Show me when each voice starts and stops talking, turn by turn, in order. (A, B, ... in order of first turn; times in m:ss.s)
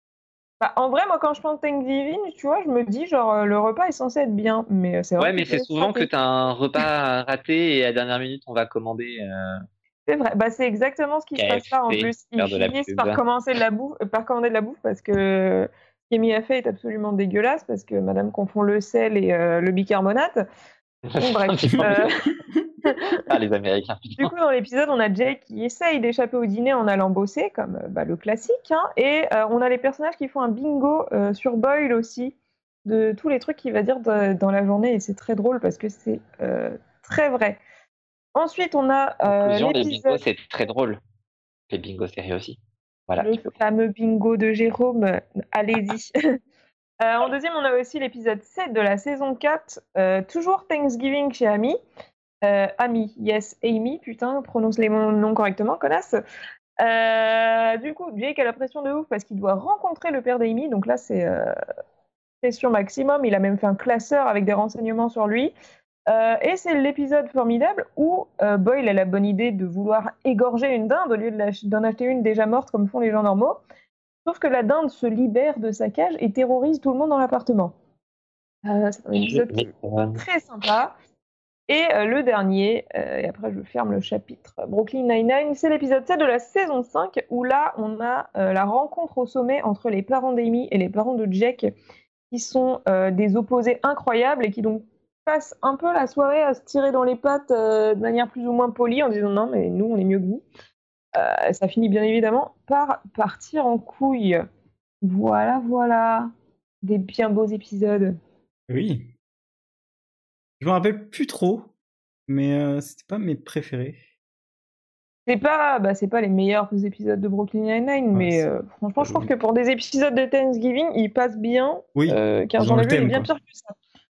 0:00.6-0:06.1 A
0:05.2-0:09.6 B
0:10.1-0:20.4 A
0:11.4-0:13.2 B
0:21.1-0:22.1 B
0:21.2-0:22.1 A
0:22.8-0:23.2 A
0:23.2-0:24.3 B
0:24.2-0:37.6 A
0:38.3-0:40.2 A
0:39.3-0:41.0 B
0:41.7-0:43.5 B
0:43.2-0:46.2 A
0:47.0-0:51.8 A
0:52.4-0:56.2 A
0:56.8-1:01.5 A
1:02.4-1:05.5 A
1:06.1-1:13.6 A
1:14.2-1:17.7 A
1:18.6-1:20.9 A
1:19.1-1:20.2 B
1:21.7-1:31.7 A
1:32.3-1:40.4 A
1:41.1-1:44.4 A
1:45.0-1:46.3 A
1:46.8-1:48.2 A
1:48.7-1:49.1 C
1:50.6-1:51.7 C
1:52.3-1:54.0 C
1:55.3-2:03.8 A
1:58.1-1:58.4 C
1:59.0-1:59.3 C
2:02.0-2:03.3 C